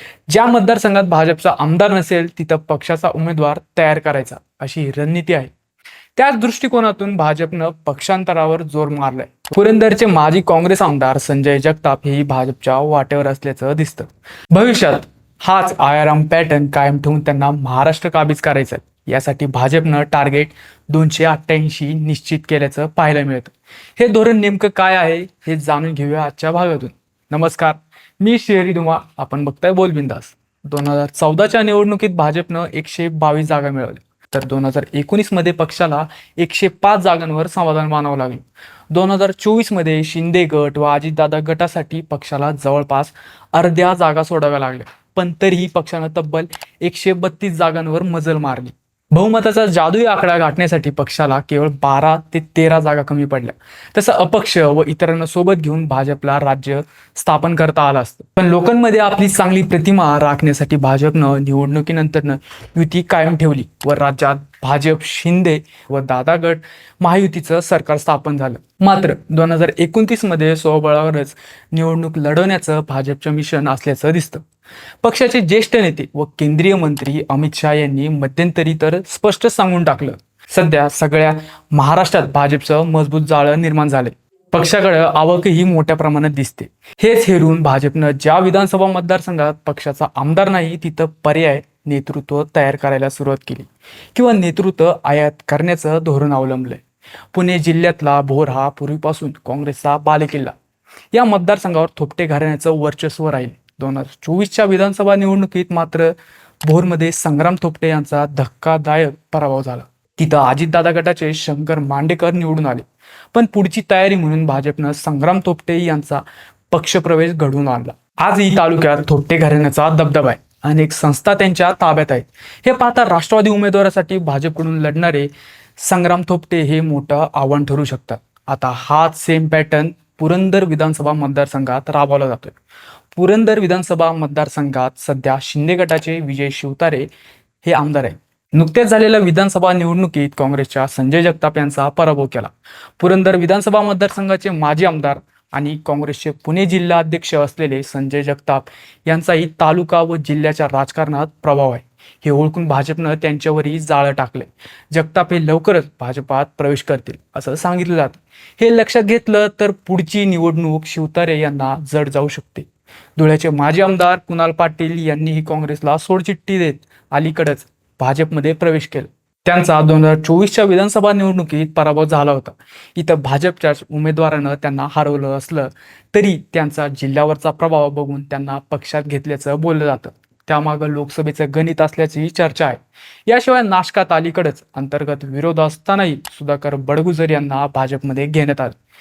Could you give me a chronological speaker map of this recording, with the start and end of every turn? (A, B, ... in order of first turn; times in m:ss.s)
0:00.3-0:05.5 A
0:06.2-1:14.4 A
1:15.0-1:36.8 A
1:37.3-1:40.5 A
1:41.1-2:12.5 A
2:13.1-2:17.1 A
2:17.6-3:08.8 A